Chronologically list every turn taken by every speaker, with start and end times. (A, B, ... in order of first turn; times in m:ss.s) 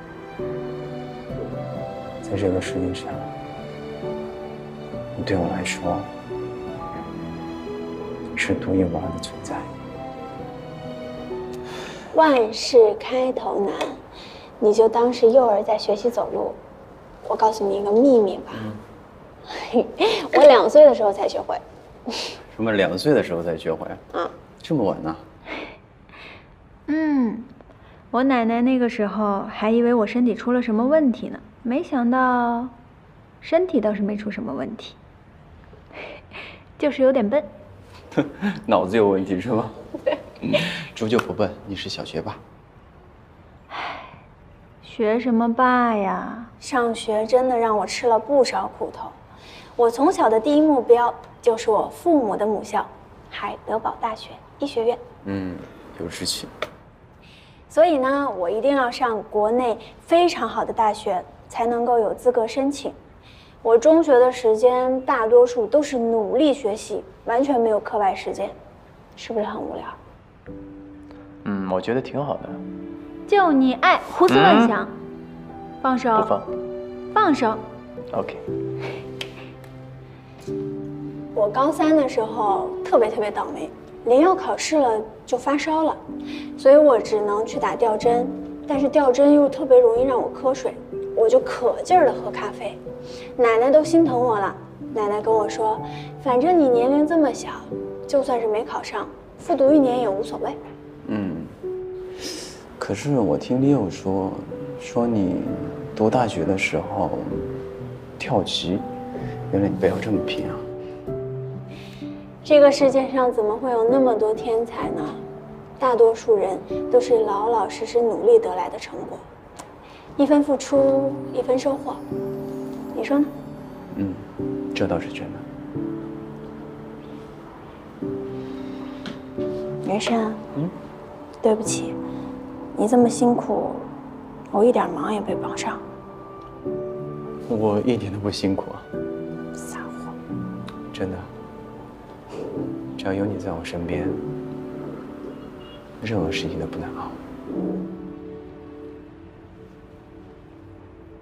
0:02.2-0:03.3 A
0:05.2-0:06.1 A
0:08.4-0:09.7 A
0:12.1-0:14.0 B
0:14.6-0:16.6 B
0:17.2-0:18.7 B
0:19.5-0:21.6 B
0:22.5-0:24.0 A
0:24.6-0:25.2 A
0:26.9-0:27.4 C
0:28.1-0:32.7 C
0:33.4-0:34.9 C
0:36.8-0:37.4 C
0:38.1-0:39.8 A
0:40.4-0:42.4 A
0:44.8-0:46.5 C
0:46.6-0:49.2 B
0:49.8-0:55.0 B
0:55.2-0:56.5 A
0:57.7-1:03.0 B
1:03.6-1:08.5 B
1:09.2-1:10.0 B
1:11.4-1:12.6 A
1:13.3-1:14.9 C
1:13.4-1:13.8 B
1:14.3-1:14.8 A
1:15.8-1:16.3 B
1:16.2-1:16.4 A
1:17.1-1:17.6 B
1:18.1-1:18.4 A
1:21.3-1:26.0 B
1:26.6-1:32.8 B
1:33.4-1:40.6 B
1:41.0-1:41.5 A
1:42.8-1:47.5 A
1:48.2-1:48.8 A
1:49.5-1:50.6 A
1:52.4-1:55.2 B
1:55.8-1:59.2 B
2:00.2-2:02.0 B
2:02.9-2:03.3 B
2:03.9-2:05.4 A
2:09.8-2:10.4 B
2:11.4-2:12.0 B
2:12.7-2:13.9 B
2:14.5-2:15.8 B
2:17.5-2:18.8 A
2:19.6-2:20.1 B
2:20.9-2:21.3 A
2:23.0-2:24.2 A
2:26.0-2:27.2 A